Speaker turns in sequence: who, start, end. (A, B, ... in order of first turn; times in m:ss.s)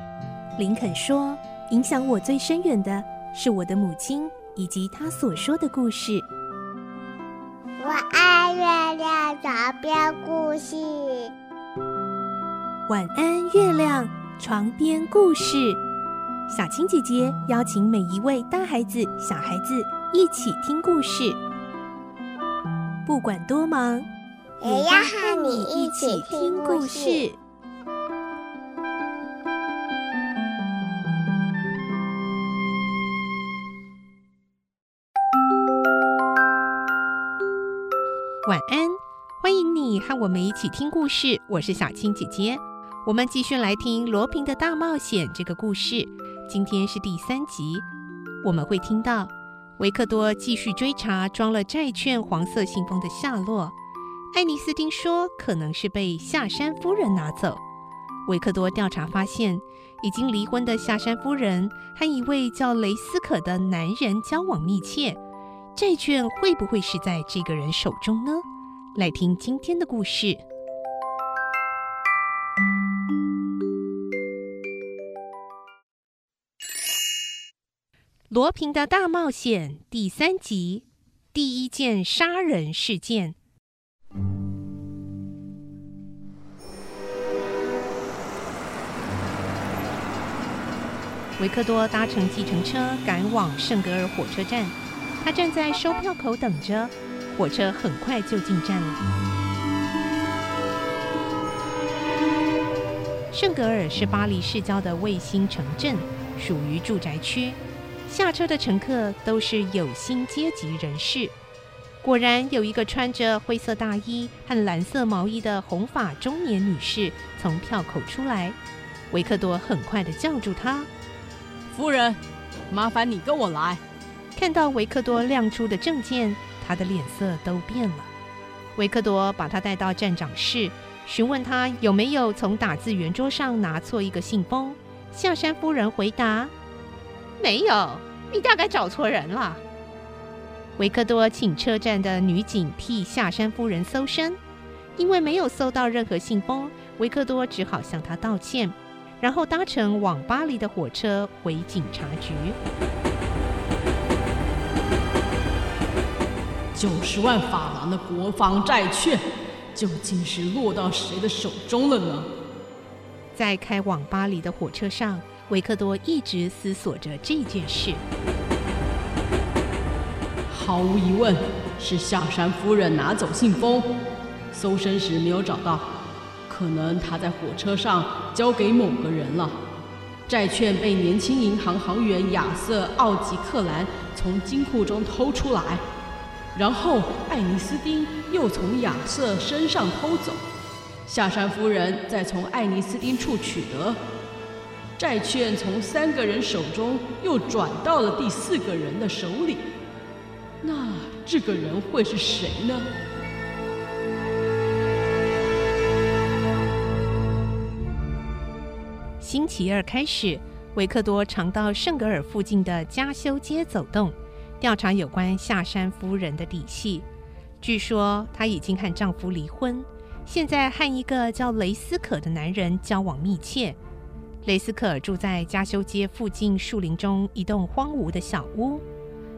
0:00.6-0:06.2 A
0:07.8-0:11.3 B
0:12.9-0:15.8 A
0:16.5-0:21.4 A
0:23.0-0:24.1 A
0:24.6-0:27.2 B
0:24.6-0:27.4 A
0:38.4-0:47.8 A
0:48.4-0:53.7 A
0:54.3-0:57.6 A
0:58.2-1:05.2 A
1:05.7-1:08.4 A
1:08.9-1:10.4 A
1:18.3-1:23.4 A
1:31.4-1:39.0 A
1:43.3-1:51.3 A
1:52.0-1:58.6 A
1:59.1-2:00.9 A
2:01.7-2:02.2 C
2:02.7-2:03.8 C
2:04.4-2:08.1 A
2:08.8-2:16.5 A
2:17.4-2:19.6 A
2:20.8-2:24.4 A
2:25.0-2:32.6 A
2:36.7-2:39.2 C
2:39.7-2:42.3 C
2:43.3-2:48.0 A
2:50.5-2:53.9 C
2:54.5-2:55.9 C
2:56.5-2:59.6 C
3:00.3-3:05.8 C
3:06.5-3:10.4 C
3:11.0-3:14.0 C
3:15.0-3:19.7 C
3:20.6-3:22.9 C
3:29.2-3:37.0 A
3:37.6-3:43.8 A
3:44.4-3:48.8 A